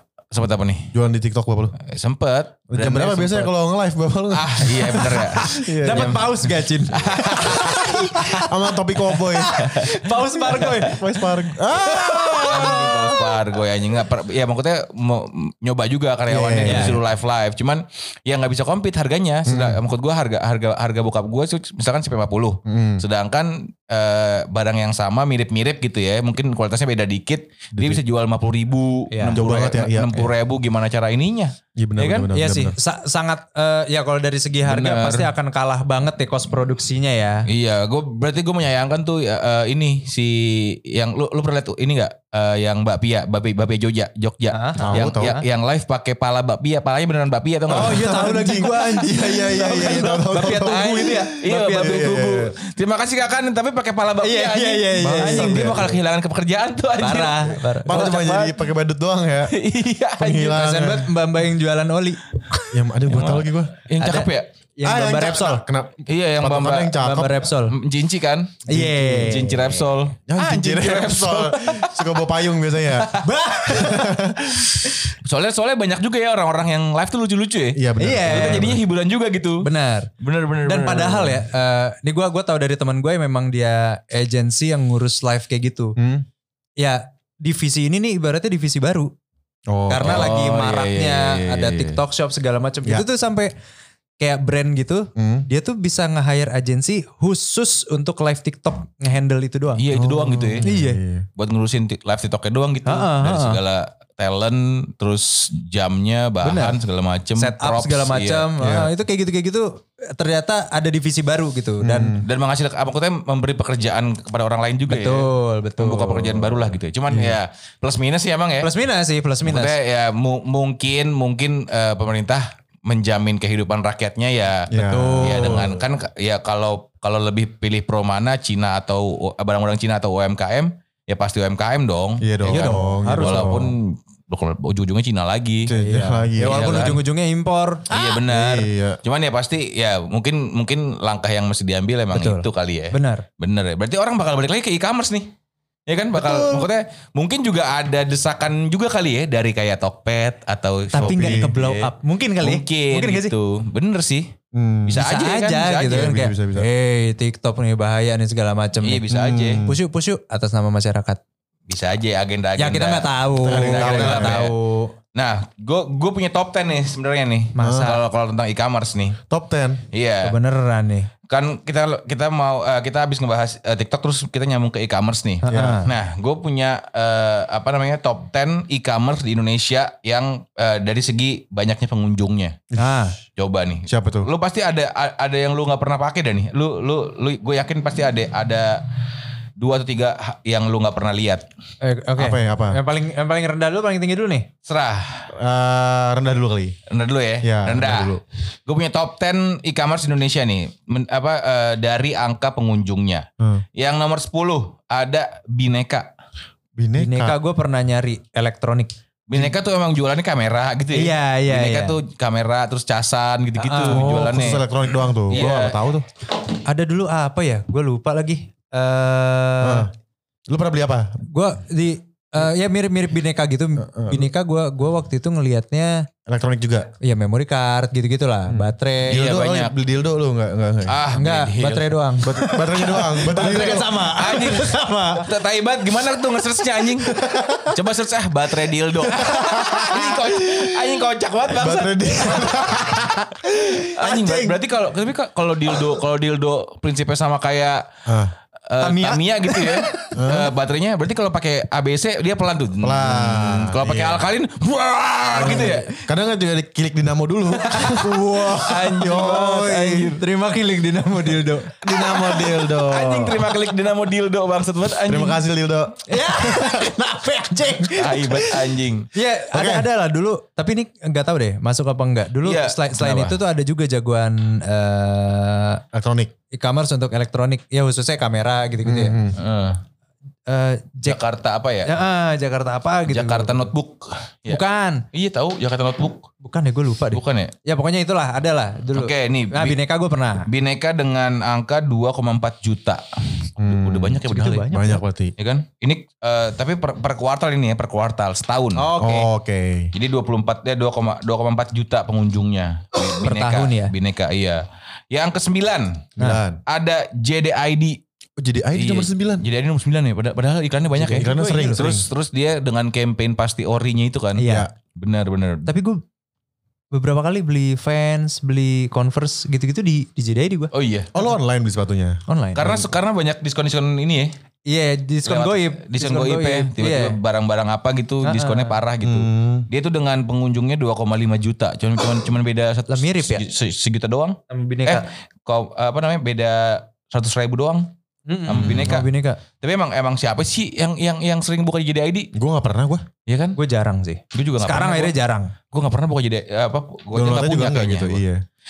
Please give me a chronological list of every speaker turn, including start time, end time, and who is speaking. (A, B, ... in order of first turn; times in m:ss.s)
0:00.3-0:00.9 A
0:00.9-0:01.7 B
0:01.8-0:03.5 A
0:02.7-0:06.3 B
0:04.3-0:06.3 A
0:04.9-0:08.5 C
0:06.9-0:08.3 A
0:07.4-0:09.6 B
0:09.0-0:13.1 C
0:09.5-0:10.0 A
0:10.4-0:13.3 B
0:10.5-0:10.8 A
0:12.4-0:32.3 A
0:16.3-0:17.0 B
0:16.6-0:17.0 C
0:19.4-0:19.8 B
0:22.6-0:23.0 B
0:27.7-0:28.0 B
0:29.1-0:29.4 C
0:29.3-0:30.3 B
0:31.8-0:32.8 B
0:32.3-0:37.5 C
0:34.6-0:35.3 A
0:37.5-0:48.4 A
0:44.5-0:45.4 C
0:44.8-0:45.4 B
0:47.7-0:52.5 B
0:47.7-0:52.1 C
0:49.6-0:58.6 A
0:54.2-0:55.9 C
0:54.9-0:56.0 B
0:57.0-0:58.1 C
0:57.8-0:59.6 B
0:59.5-1:00.6 A
1:00.2-1:01.1 B
1:00.5-1:02.7 C
1:02.7-1:03.7 B
1:03.1-1:04.5 A
1:04.0-1:05.6 C
1:04.8-1:07.4 B
1:06.1-1:07.0 A
1:07.0-1:07.8 C
1:07.6-1:08.6 A
1:08.7-1:09.4 B
1:08.7-1:09.8 C
1:09.2-1:12.1 A
1:10.3-1:13.1 B
1:12.9-1:13.3 A
1:13.2-1:14.2 C
1:13.6-1:14.9 B
1:15.2-1:19.7 A
1:17.7-1:18.8 B
1:18.0-1:18.7 C
1:19.6-1:20.1 C
1:20.2-1:21.4 A
1:20.6-1:26.0 C
1:26.0-1:26.2 B
1:26.8-1:29.1 C
1:29.7-1:30.3 B
1:29.9-1:33.5 C
1:30.0-1:32.0 A
1:34.2-1:39.8 C
1:35.2-1:35.5 B
1:39.8-1:40.7 A
1:39.9-1:41.3 B
1:40.6-1:41.0 C
1:41.4-1:48.5 A
1:42.8-1:43.6 C
1:46.4-1:46.8 C
1:47.4-1:52.2 C
1:48.6-1:48.9 B
1:51.8-1:52.2 B
1:52.2-1:58.7 A
1:54.9-1:56.6 C
1:57.1-1:57.4 B
1:58.6-1:59.8 C
1:59.4-2:04.7 A
2:04.7-2:05.7 B
2:04.7-2:05.8 C
2:05.2-2:15.7 A
2:12.2-2:13.7 B
2:12.5-2:13.6 C
2:15.6-2:17.0 B
2:15.8-2:18.0 C
2:16.4-2:17.0 A
2:17.9-2:25.3 A
2:18.2-2:19.0 B
2:22.1-2:23.2 C
2:25.9-2:34.3 A
2:26.2-2:26.7 C
2:30.9-2:33.3 C
2:31.0-2:31.5 B
2:34.5-2:35.0 B
2:34.8-2:36.1 A
2:35.0-2:39.1 C
2:35.8-2:36.7 B
2:38.8-2:39.6 A
2:39.1-2:39.8 B
2:39.6-2:41.2 C
2:41.7-2:44.5 A
2:42.6-2:44.9 C
2:43.4-2:44.4 B
2:45.1-2:49.2 A
2:47.6-2:48.0 C
2:47.6-2:47.9 B
2:49.3-2:49.8 B
2:49.9-2:50.4 A
2:50.2-2:51.1 C
2:51.3-3:02.6 A
2:55.4-2:55.9 C
2:55.5-2:55.8 B
3:02.8-3:03.2 C
3:03.4-3:08.9 A
3:03.9-3:04.3 B
3:09.6-3:11.4 A
3:11.8-3:14.5 C
3:12.2-3:12.8 B
3:14.6-3:15.3 A
3:15.3-3:16.8 B
3:16.9-3:26.1 A
3:17.4-3:18.2 B
3:26.8-3:27.4 B
3:27.0-3:28.9 C
3:29.3-3:34.7 A
3:30.9-3:32.0 C
3:33.6-3:34.4 C
3:33.9-3:36.0 B
3:35.3-3:35.8 A
3:36.6-3:39.9 C
3:39.6-3:39.9 B
3:40.5-3:41.2 B
3:41.3-3:46.1 C
3:43.8-3:44.3 B
3:46.3-3:46.9 B
3:47.0-3:49.2 C
3:48.5-3:51.0 B
3:49.1-3:49.7 A
3:50.9-3:52.0 A
3:51.1-3:55.3 C
3:52.2-3:54.1 B
3:53.4-4:07.8 A
3:57.0-3:57.7 B
3:59.0-4:04.6 B
4:05.7-4:06.0 B
4:08.0-4:08.3 B
4:08.7-4:15.9 A
4:08.8-4:10.1 C
4:10.1-4:10.5 B
4:12.8-4:14.2 B
4:15.4-4:20.1 B
4:15.4-4:15.8 C
4:17.6-4:22.4 C
4:18.5-4:20.2 A
4:21.8-4:23.6 B
4:22.4-4:25.4 A
4:25.0-4:27.1 B
4:26.1-4:28.6 C
4:28.0-4:29.1 A
4:29.1-4:35.8 C
4:29.5-4:29.9 B
4:32.4-4:33.4 A
4:35.9-4:36.3 B
4:36.5-4:39.2 C
4:38.8-4:39.4 B
4:39.4-4:39.8 A
4:40.5-4:41.2 C
4:41.0-4:41.9 A
4:41.8-4:43.7 C
4:43.1-4:44.6 A
4:44.5-4:45.0 C
4:45.1-4:46.3 A
4:46.4-4:50.5 C
4:47.1-4:47.5 A
4:48.9-4:49.8 A
4:50.5-4:54.7 A
4:53.6-4:55.3 B
4:54.2-4:55.0 C
4:55.4-4:58.9 A
4:58.8-4:59.3 C
4:59.0-4:59.9 B
4:59.9-5:06.1 A
5:03.2-5:03.9 C
5:06.2-5:06.6 B
5:06.7-5:08.0 A
5:08.4-5:09.4 B
5:08.7-5:15.7 A
5:11.0-5:11.8 C
5:11.1-5:12.1 B
5:14.4-5:14.7 C
5:14.4-5:14.7 B
5:15.6-5:16.0 C
5:16.9-5:20.7 C
5:20.7-5:21.1 A
5:21.1-5:22.2 B
5:22.3-5:22.8 C
5:22.5-5:24.3 A
5:24.7-5:27.2 C
5:25.2-5:37.9 A
5:28.2-5:28.8 C
5:29.0-5:29.7 B
5:32.9-5:33.4 C
5:34.5-5:35.0 C
5:38.3-5:39.4 C
5:38.4-5:42.3 A
5:38.6-5:38.9 B
5:42.3-5:43.0 B
5:43.3-5:43.6 A
5:43.5-5:45.5 C
5:44.3-5:45.1 A
5:45.7-5:48.2 A
5:47.1-5:48.4 B